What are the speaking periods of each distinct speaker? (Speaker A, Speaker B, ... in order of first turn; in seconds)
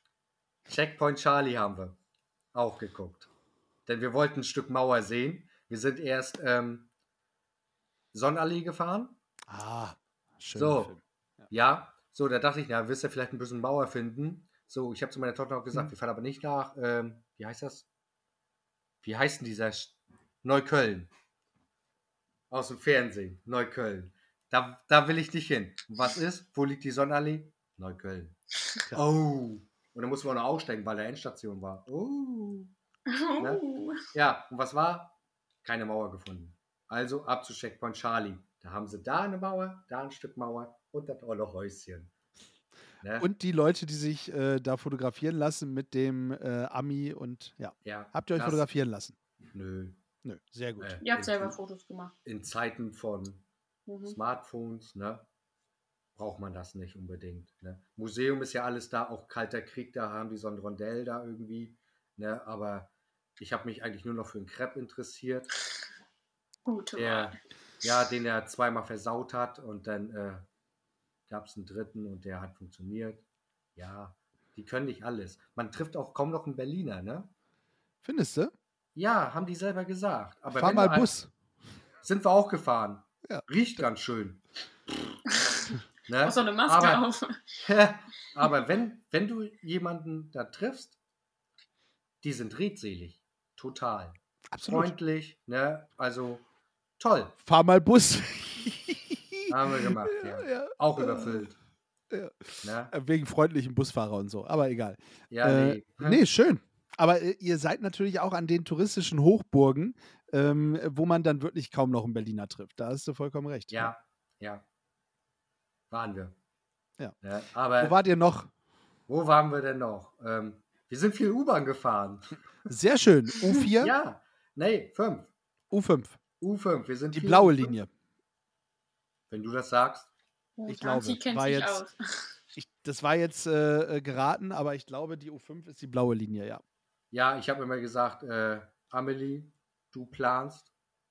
Speaker A: 0.7-2.0, 2.5-3.3, 3.9-6.9, 8.1-9.2, 10.5-10.9, 11.5-17.9, 19.0-21.1, 22.5-28.4, 28.9-32.7, 33.4-42.1, 43.0-43.3, 47.8-48.6, 49.5-50.0, 50.8-51.6, 52.2-53.4, 54.0-55.2, 56.1-65.5, 67.0-70.5, 71.3-73.2, 73.8-77.3, 79.0-81.1, 82.0-85.1, 86.0-87.0, 87.6-91.0, 92.2-96.5, 97.0-97.3, 99.5-101.6, 102.6-102.9, 105.3-106.2, 113.7-114.6, 115.9-116.4, 117.2-117.9, 119.1-122.4, 123.8-125.3, 126.4-127.7, 129.3-130.1, 137.1-140.7
Speaker B: 9.5-11.4, 43.2-49.1, 50.2-51.0, 78.0-78.5, 80.5-81.3, 94.5-94.9, 97.4-101.5, 102.1-113.9, 117.8-118.5, 122.7-123.9, 125.7-126.2, 127.1-127.9, 130.7-131.8, 132.5-136.6
Speaker C: 33.1-34.0, 51.0-52.1, 53.9-54.1, 66.7-67.3, 86.2-87.5, 130.6-132.4